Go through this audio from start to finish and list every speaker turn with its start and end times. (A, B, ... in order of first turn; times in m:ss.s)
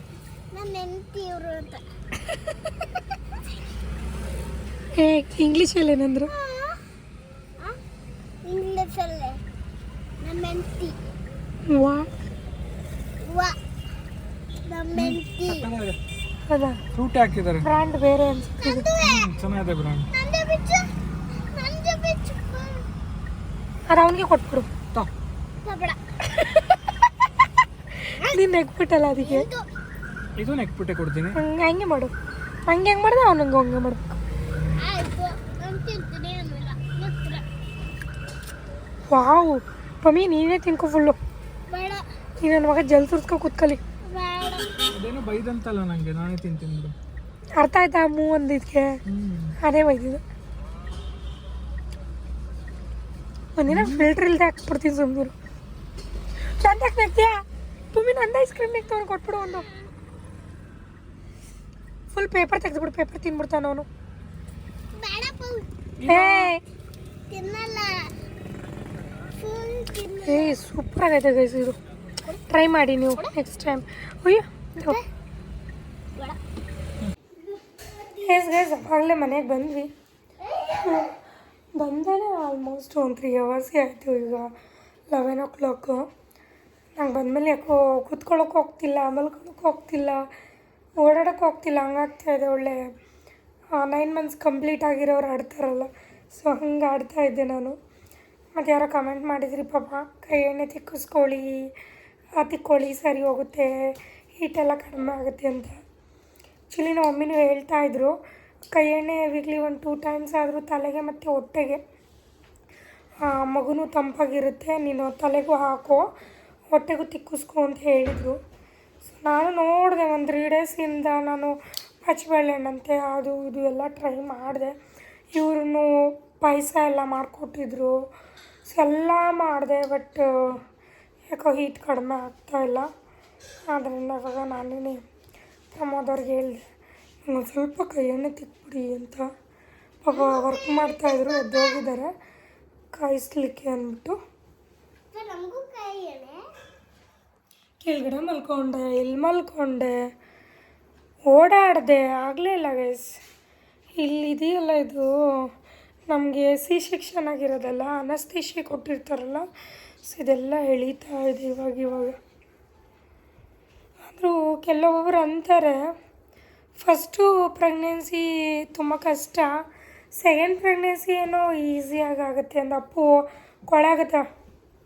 0:00.5-0:01.8 A
0:04.9-0:06.3 B
0:06.3-0:06.8 A
0:08.4-0:09.4 A
0:10.2-0:11.0 A
0:11.7-0:12.1 B
0:13.2-0:13.6 A
0:14.6-0:15.7 A
0:14.9-0:16.0 C
0:16.5-0:16.8 B
0:16.9-0:17.7 C
0:17.6-0:18.9 B
0:18.6-0:19.3 A
0:19.0-0:20.1 C
0:20.1-0:22.8 A
0:23.9-0:24.7 B
0:25.6-0:26.0 A
0:28.1-0:28.4 A
0:28.2-0:29.5 B
0:29.2-0:29.7 A
0:30.4-0:31.4 C
0:31.3-0:32.1 B
0:32.7-0:34.2 B
0:34.8-0:37.4 A
0:39.1-0:41.2 B
0:41.7-0:42.0 A
0:42.4-0:43.8 B
0:44.1-0:44.9 A
0:44.9-0:46.9 C
0:47.6-0:49.0 B
0:49.0-0:49.6 C
0:49.6-0:50.2 B
0:53.6-0:55.3 B
0:53.7-0:54.1 C
0:56.4-0:59.7 B
1:02.1-1:03.9 B
1:04.9-1:05.6 A
1:06.0-1:06.5 C
1:06.0-1:06.6 B
1:07.3-1:08.1 A
1:09.3-1:10.6 A
1:10.2-1:11.8 B
1:12.5-1:15.0 B
1:17.5-1:18.2 A
1:18.2-1:19.9 B
1:20.4-1:21.1 A
1:20.8-1:21.1 B
1:21.8-1:24.5 B
1:25.1-1:26.0 B
1:27.0-1:30.3 B
1:31.0-1:32.9 B
1:33.7-1:37.8 B
1:38.5-1:41.7 B
1:42.4-1:45.8 B
1:46.7-1:48.1 B
1:48.7-1:51.8 B
1:53.2-1:56.1 B
1:56.7-1:58.4 B
1:59.0-2:04.7 B
2:05.3-2:08.0 B
2:08.7-2:10.6 B
2:11.3-2:12.9 B
2:13.7-2:15.0 B
2:15.7-2:16.6 B
2:17.2-2:19.3 B
2:20.0-2:22.1 B
2:20.1-2:21.8 A
2:22.9-2:24.2 B
2:25.1-2:26.4 A
2:27.8-2:30.0 B
2:31.3-2:33.1 B
2:34.0-2:35.5 B
2:36.1-2:39.5 B
2:40.0-2:42.2 B
2:44.0-2:45.8 B
2:46.8-2:54.2 B